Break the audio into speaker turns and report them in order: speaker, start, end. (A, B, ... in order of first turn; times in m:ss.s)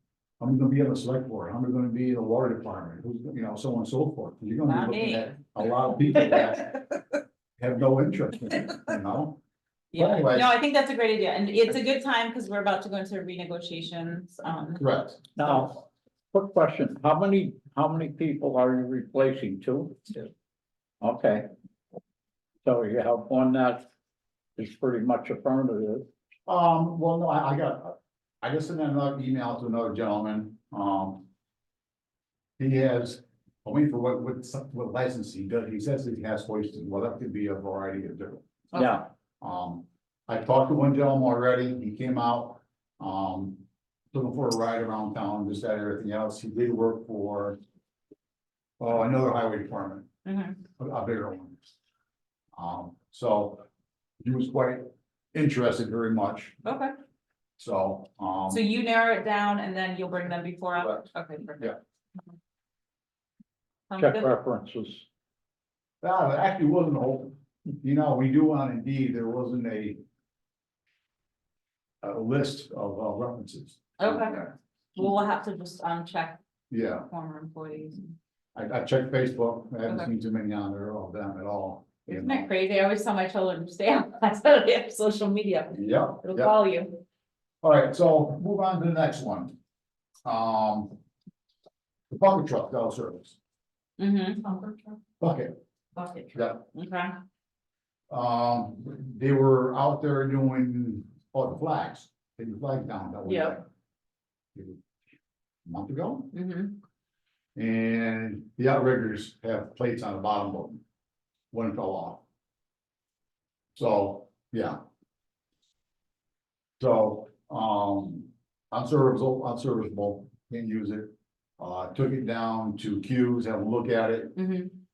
0:00.4-0:06.8 A
0:04.6-0:05.4 B
0:07.6-0:09.4 A
0:09.9-0:14.8 B
0:10.0-0:10.5 A
0:14.8-0:15.2 A
0:15.4-0:15.8 C
0:16.3-0:20.3 C
0:21.0-0:21.5 C
0:22.6-0:23.8 C
0:24.6-0:26.1 C
0:26.5-0:31.2 A
0:32.6-0:38.4 A
0:38.7-0:39.1 C
0:39.4-0:47.6 A
0:48.8-0:50.1 A
0:50.2-0:50.6 B
0:50.8-0:51.6 A
0:52.6-0:53.7 A
0:54.2-0:56.6 A
0:56.6-0:56.9 B
0:57.6-0:58.6 A
0:58.5-1:01.7 B
1:03.9-1:04.3 B
1:04.0-1:05.0 C
1:06.0-1:10.0 A
1:12.0-1:14.5 A
1:14.0-1:14.4 B
1:15.0-1:16.4 B
1:16.7-1:17.0 A
1:17.0-1:18.1 B
1:18.5-1:22.5 A
1:22.1-1:27.0 B
1:25.7-1:26.5 A
1:27.6-1:29.5 A
1:30.2-1:31.0 A
1:32.1-1:33.4 A
1:34.0-1:35.0 B
1:35.2-1:35.5 A
1:36.0-1:37.1 B
1:36.3-1:36.6 A
1:38.1-1:43.6 A
1:43.2-1:43.6 B
1:44.5-1:44.8 A
1:45.6-1:46.3 A
1:46.3-1:46.8 B
1:47.6-1:50.8 A
1:51.5-1:52.2 A
1:53.8-1:54.8 A
1:56.8-2:04.4 A
2:04.4-2:04.7 B